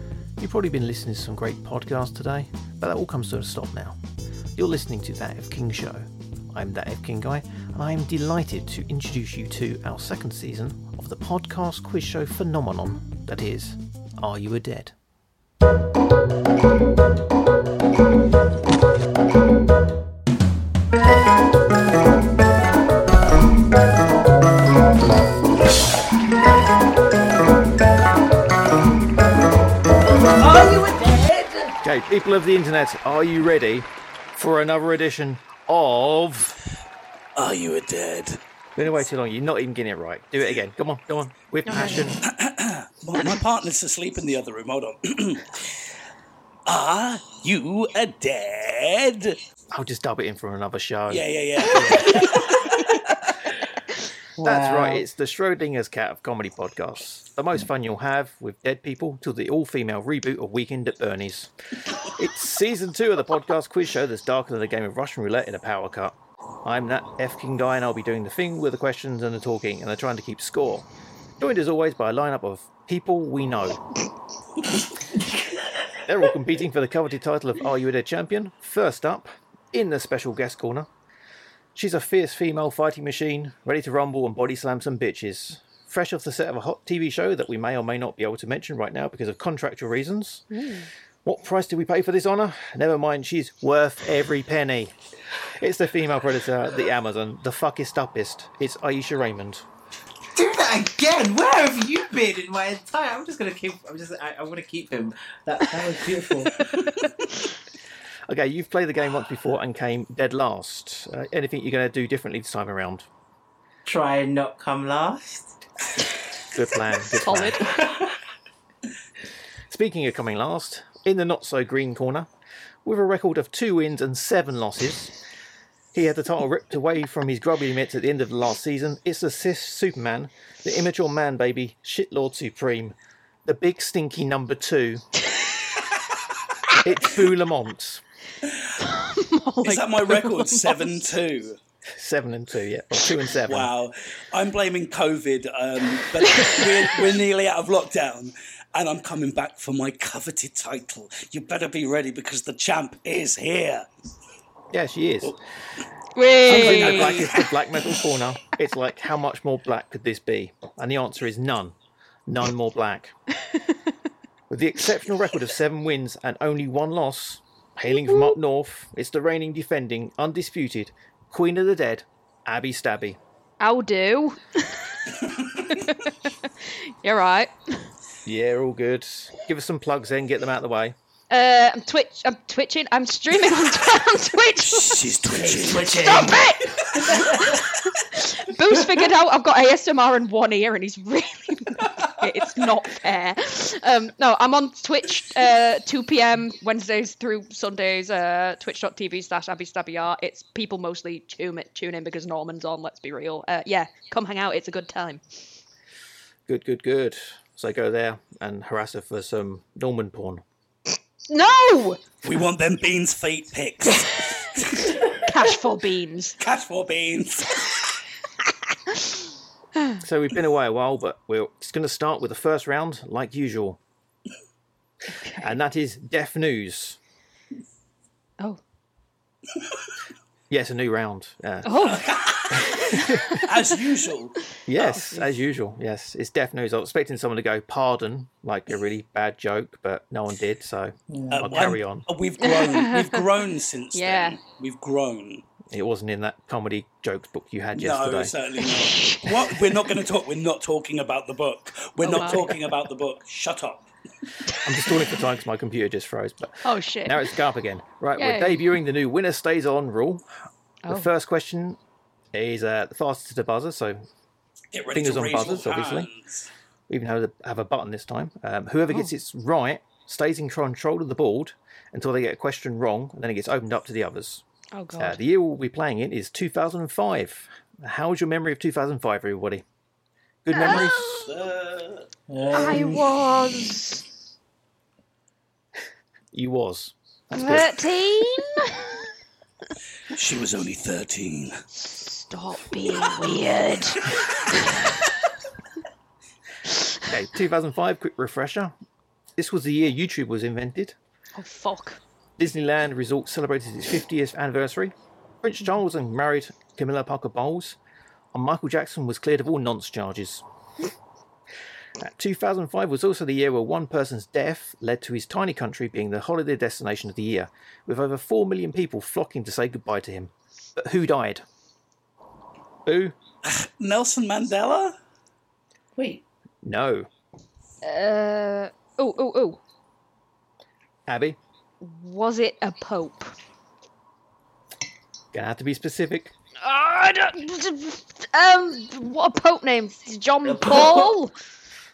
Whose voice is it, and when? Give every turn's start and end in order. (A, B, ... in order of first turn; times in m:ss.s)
0:00.4-0:04.0 A
0:04.6-0:14.9 A
0:30.3-0:31.8 B
0:31.8-0:36.6 A
0:37.4-0:38.4 B
0:38.8-0:42.2 A
0:41.6-0:42.1 C
0:42.2-0:45.7 B
0:46.6-0:49.4 B
0:49.7-0:52.2 A
0:51.1-0:53.3 B
0:51.6-0:52.6 C
0:54.4-0:55.0 D
0:54.4-1:01.5 A
1:02.0-1:10.9 A
1:11.4-1:13.8 A
1:16.0-1:20.9 A
1:21.7-1:30.6 A
1:30.5-1:30.9 C
1:31.2-1:39.6 A
1:40.3-1:47.0 D
1:48.3-1:53.1 A
1:53.8-1:55.5 D
1:56.5-1:57.7 A
1:57.0-1:57.7 C
1:57.6-1:58.2 D
1:59.7-2:02.3 A
2:02.8-2:05.1 A
2:05.9-2:15.0 A
2:16.8-2:18.0 A
2:18.8-2:21.1 C
2:19.6-2:21.6 B
2:21.9-2:23.7 A
2:23.4-2:33.9 B
2:26.2-2:27.0 C
2:34.7-2:35.4 A
2:36.1-2:37.4 C
2:36.4-2:41.7 A
2:36.5-2:37.4 B
2:42.3-2:43.1 A
2:44.5-2:53.2 A
2:53.6-2:57.9 C
2:58.2-3:00.9 A
3:01.3-3:05.1 C
3:04.6-3:06.4 B
3:05.3-3:06.4 D
3:05.7-3:25.4 C
3:07.0-3:07.6 D
3:26.5-3:30.4 A
3:31.3-3:32.0 C
3:32.2-3:35.0 B
3:34.8-3:36.4 C
3:36.4-3:38.0 B
3:38.9-3:39.2 C
3:40.0-3:43.8 A
3:45.1-3:45.6 C
3:45.4-3:47.0 A
3:50.5-3:51.9 A
3:51.6-3:53.4 C
3:51.8-3:54.9 B
3:52.5-3:53.4 A
3:54.6-4:02.1 A
4:01.1-4:01.4 D
4:01.3-4:05.4 B
4:02.4-4:03.2 C
4:03.9-4:04.4 C
4:05.7-4:08.3 A
4:07.7-4:13.8 B
4:08.6-4:09.8 C
4:12.0-4:12.6 C
4:14.6-4:20.2 A
4:16.6-4:17.4 C
4:18.2-4:18.6 C
4:20.8-4:21.1 C
4:20.9-4:21.8 A
4:22.3-4:24.0 A
4:24.7-4:26.5 B
4:24.9-4:26.1 A
4:26.9-4:34.4 A
4:34.7-4:35.2 C
4:35.0-4:39.6 A
4:40.4-4:41.2 A
4:40.5-4:41.3 C
4:40.6-4:42.1 B
4:42.3-4:43.1 D
4:42.5-4:44.1 C
4:46.3-4:47.8 A
4:47.3-4:49.1 C
4:50.1-4:51.6 B
4:51.8-4:55.1 C
4:57.0-4:58.7 A
4:59.4-5:01.0 A
5:01.4-5:02.0 C
5:02.4-5:07.8 A
5:08.3-5:10.4 A
5:12.0-5:21.4 A
5:22.8-5:23.1 A
5:23.4-5:25.0 B
5:26.0-5:26.2 D
5:26.6-5:27.1 A
5:27.8-5:29.6 C
5:31.1-5:31.4 A
5:31.8-5:33.3 C
5:35.3-5:36.3 A
5:36.6-5:41.3 C
5:40.4-5:41.2 D